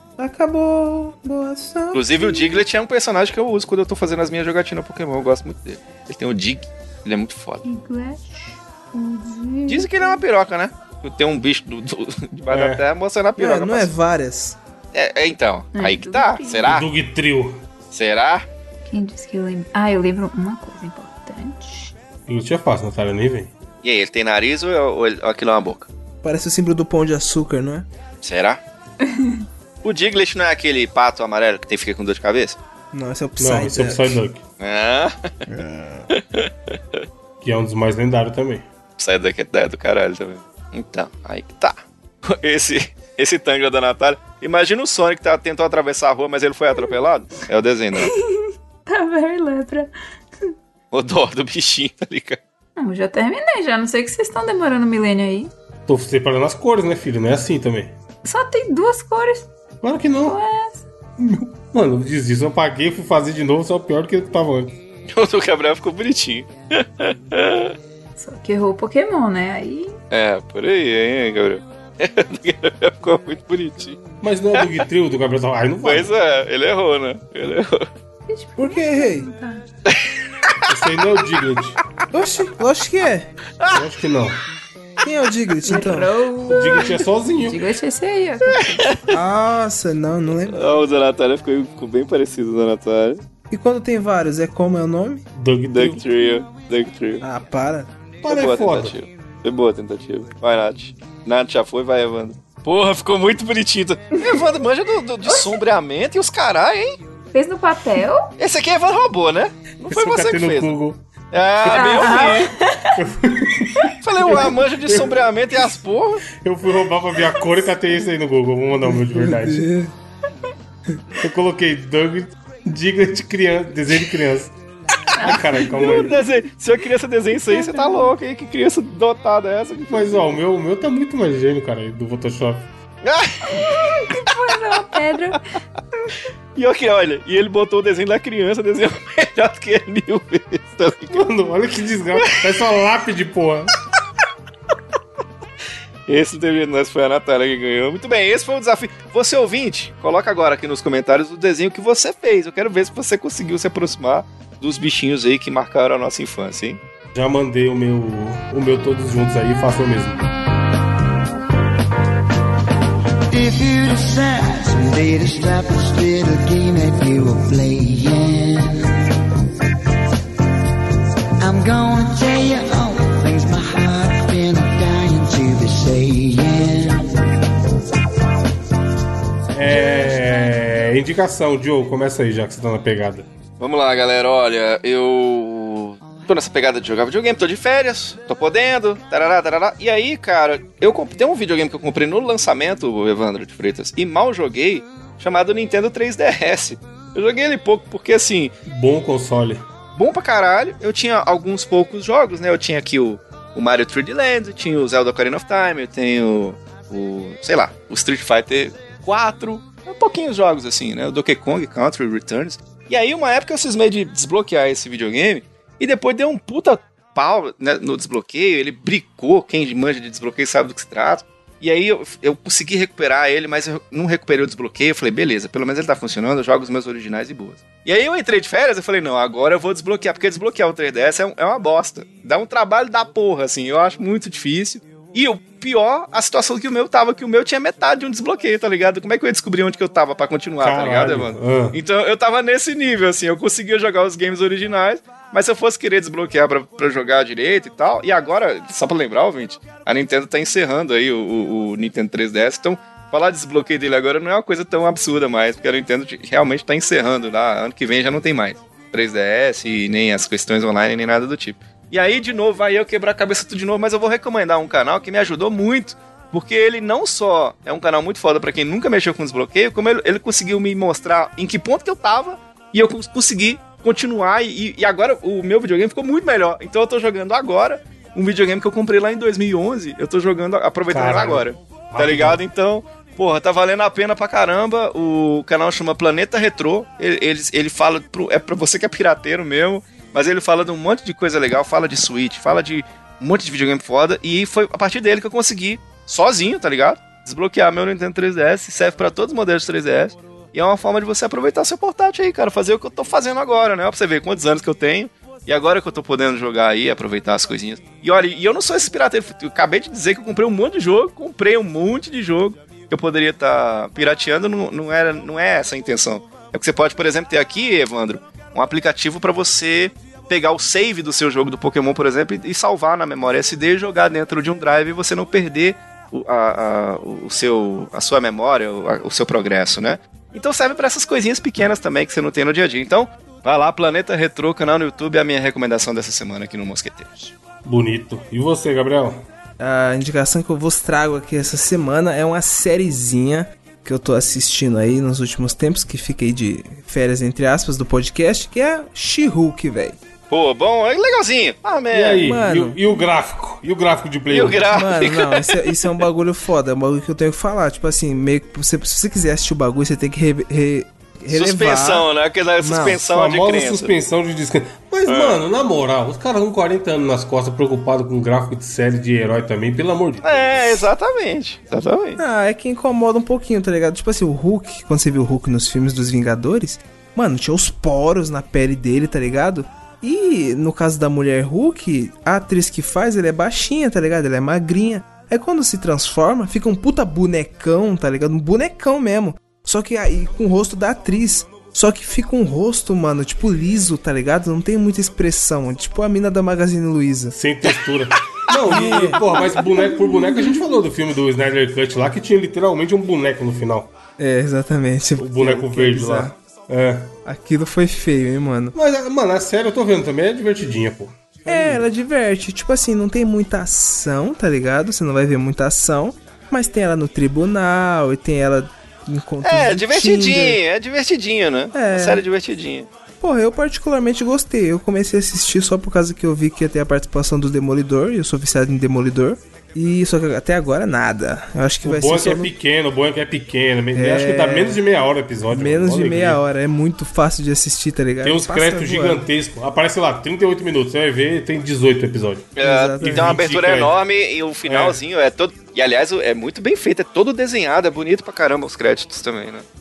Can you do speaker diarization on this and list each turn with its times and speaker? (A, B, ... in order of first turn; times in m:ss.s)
0:00.2-0:02.3 A
0:01.9-0:07.6 B
0:07.6-0:10.2 C
0:09.6-0:13.9 B
0:12.5-0:12.8 D
0:13.4-0:14.6 A
0:14.9-0:16.8 B
0:15.7-0:16.8 C
0:16.6-0:17.6 D
0:17.9-0:18.4 B
0:18.9-0:21.9 C
0:22.3-0:23.5 D
0:23.8-0:25.9 B
0:26.2-0:27.9 A
0:28.2-0:28.6 B
0:29.0-0:29.4 C
0:29.8-0:32.6 B
0:32.9-0:34.2 A
0:33.4-0:34.4 D
0:34.6-0:35.3 B
0:35.5-0:36.1 A
0:36.1-0:37.0 B
0:37.4-0:38.6 D
0:39.0-0:48.1 B
0:47.9-0:50.5 C
0:50.9-0:52.4 B
0:52.8-0:55.5 C
0:55.9-0:57.9 D
0:58.2-0:59.5 C
0:59.8-1:00.4 D
1:00.2-1:00.8 C
1:01.2-1:04.8 D
1:05.1-1:07.7 B
1:08.2-1:10.0 C
1:10.1-1:14.0 B
1:14.2-1:16.1 D
1:14.5-1:14.8 B
1:15.8-1:17.9 B
1:18.3-1:19.6 C
1:18.6-1:19.3 A
1:19.8-1:20.7 B
1:20.7-1:21.8 D
1:22.1-1:23.3 A
1:23.7-1:24.4 D
1:25.0-1:26.2 A
1:25.6-1:29.0 C
1:26.4-1:27.6 D
1:28.4-1:29.1 B
1:29.1-1:30.6 A
1:30.5-1:33.2 B
1:33.5-1:35.2 A
1:35.3-1:36.0 D
1:35.7-1:37.2 B
1:37.2-1:37.9 A
1:38.2-1:38.9 D
1:38.3-1:47.0 B
1:44.2-1:44.5 C
1:45.2-1:45.5 C
1:47.3-1:48.3 C
1:48.4-1:50.7 B
1:49.9-1:51.0 D
1:51.3-1:52.5 B
1:51.7-1:53.0 C
1:53.0-1:55.2 D
1:54.0-1:56.2 B
1:56.4-1:59.7 D
1:58.8-1:59.9 A
2:01.2-2:04.5 D
2:05.1-2:06.2 C
2:05.2-2:06.2 D
2:05.6-2:10.3 B
2:07.5-2:08.1 C
2:09.9-2:12.7 D
2:13.0-2:13.6 B
2:13.5-2:15.4 C
2:16.6-2:21.3 B
2:21.1-2:23.7 D
2:22.2-2:22.6 B
2:26.1-2:36.8 B
2:37.1-2:40.2 D
2:43.3-2:49.0 E
2:51.4-2:57.1 E
2:59.5-3:03.3 D
3:03.6-3:18.5 B
3:18.6-3:19.6 D
3:20.0-5:37.3 B
4:00.6-4:01.8 D
4:40.9-4:42.4 D
5:37.6-5:39.2 D
5:39.6-5:50.0 A
5:50.3-5:52.2 B
5:51.9-5:54.7 D
5:52.2-5:52.8 A
5:54.3-5:55.9 B
5:54.6-6:02.1 A
6:01.3-6:03.9 B
6:02.6-6:03.0 A
6:03.0-6:10.8 D
6:05.1-6:05.4 B
6:10.2-6:12.2 B
6:12.2-6:37.4 A
6:37.3-6:43.9 D
6:38.6-6:39.5 A
6:44.2-6:46.3 A
6:45.2-6:47.1 D
6:47.2-6:48.7 A
6:48.7-6:51.8 D
6:51.4-7:00.6 A
6:59.4-7:02.9 B
7:01.7-7:02.2 A
7:03.2-7:12.5 A
7:11.8-7:16.4 D
7:13.9-7:14.8 A
7:15.5-7:19.3 A
7:18.2-7:24.0 D
7:22.6-7:29.6 B
7:22.6-7:23.4 A
7:24.6-7:25.0 D